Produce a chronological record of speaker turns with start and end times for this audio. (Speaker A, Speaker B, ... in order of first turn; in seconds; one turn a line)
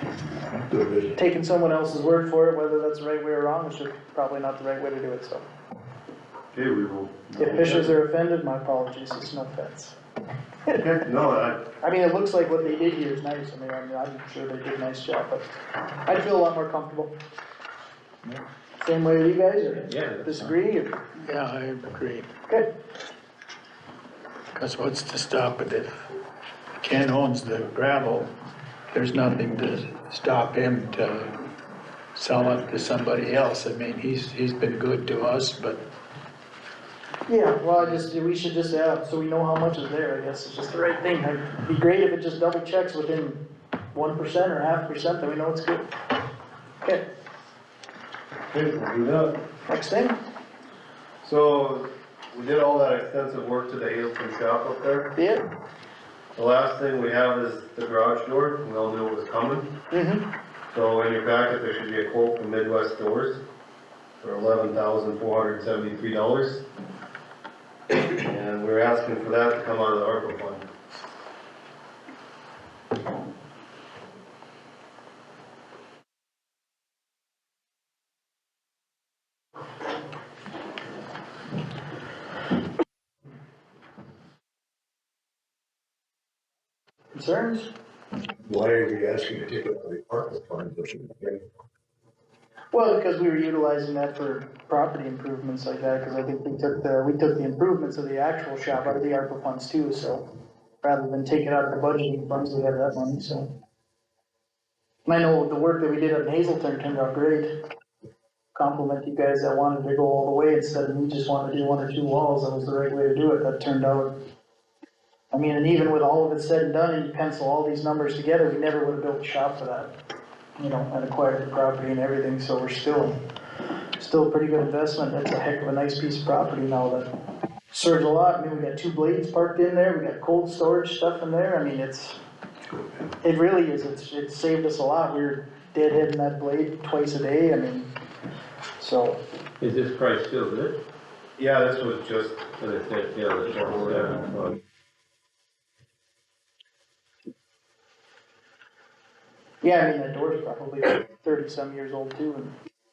Speaker A: 0.5-1.2
Speaker B: 1.1-5.4
Speaker C: 6.5-7.9
Speaker B: 7.4-9.9
Speaker C: 10.7-11.6
Speaker B: 11.7-15.4
Speaker B: 16.0-17.1
Speaker B: 18.8-21.0
Speaker D: 19.9-20.5
Speaker E: 21.2-22.3
Speaker E: 24.5-26.1
Speaker E: 26.8-28.3
Speaker E: 28.9-31.4
Speaker E: 32.1-35.8
Speaker B: 37.3-45.9
Speaker C: 48.5-49.4
Speaker B: 49.7-50.2
Speaker C: 51.2-55.1
Speaker B: 55.1-55.4
Speaker C: 56.4-59.7
Speaker B: 59.9-60.2
Speaker C: 60.7-63.4
Speaker C: 64.2-66.6
Speaker C: 68.2-70.6
Speaker B: 87.1-87.7
Speaker A: 88.4-91.4
Speaker B: 92.7-100.2
Speaker B: 100.8-103.5
Speaker B: 105.0-107.5
Speaker B: 108.5-114.1
Speaker B: 115.3-119.9
Speaker B: 120.6-123.2
Speaker B: 124.0-127.1
Speaker B: 127.7-132.2
Speaker A: 132.7-133.1
Speaker B: 133.2-137.9
Speaker B: 138.8-139.2
Speaker D: 139.6-140.8
Speaker C: 141.4-144.6
Speaker D: 143.7-144.2
Speaker B: 149.6-152.5